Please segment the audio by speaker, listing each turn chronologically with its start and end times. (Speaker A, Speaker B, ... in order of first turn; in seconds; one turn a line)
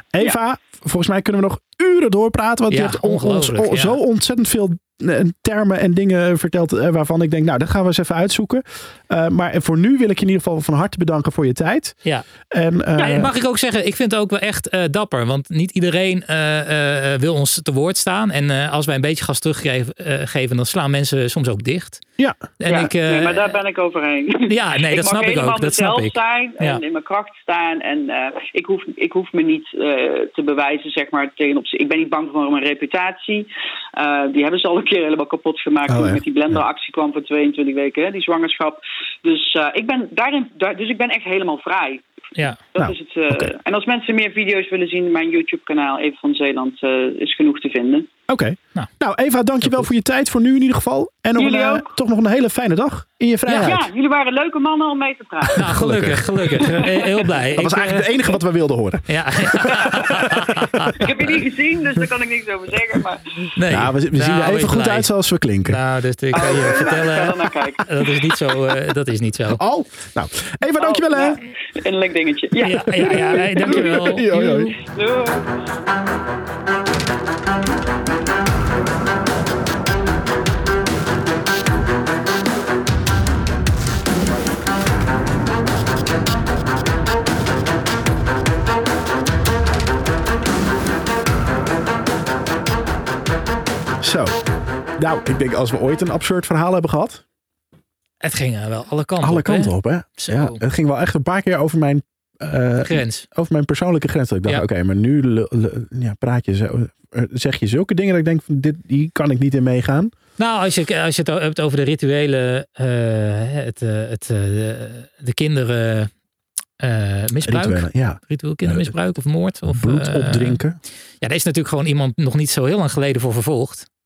Speaker A: 0.1-12.0
Speaker B: 2.7-4.0
Speaker A: 12.5-13.3
Speaker B: 12.9-22.0
Speaker B: 22.6-23.5
Speaker C: 22.6-42.0
Speaker B: 24.5-26.8
Speaker A: 35.9-36.6
Speaker C: 42.7-48.1
Speaker A: 42.8-43.5
Speaker A: 48.3-53.9
Speaker B: 49.6-49.9
Speaker C: 51.4-51.9
Speaker B: 53.5-53.8
Speaker C: 53.6-55.7
Speaker A: 55.5-56.3
Speaker B: 55.5-58.2
Speaker C: 56.6-57.3
Speaker A: 57.5-60.9
Speaker B: 59.1-61.2
Speaker C: 61.0-63.5
Speaker B: 63.5-65.1
Speaker A: 63.7-65.8
Speaker B: 65.6-69.6
Speaker C: 66.3-68.1
Speaker A: 69.5-71.4
Speaker C: 70.8-74.1
Speaker B: 72.6-74.7
Speaker A: 73.0-74.8
Speaker C: 74.8-75.5
Speaker A: 94.0-94.4
Speaker A: 95.0-97.2
Speaker B: 98.2-100.6
Speaker A: 99.2-110.1
Speaker B: 102.8-103.2
Speaker B: 110.4-116.1
Speaker B: 116.8-120.6
Speaker A: 117.4-118.9
Speaker A: 119.6-120.8
Speaker B: 121.2-123.9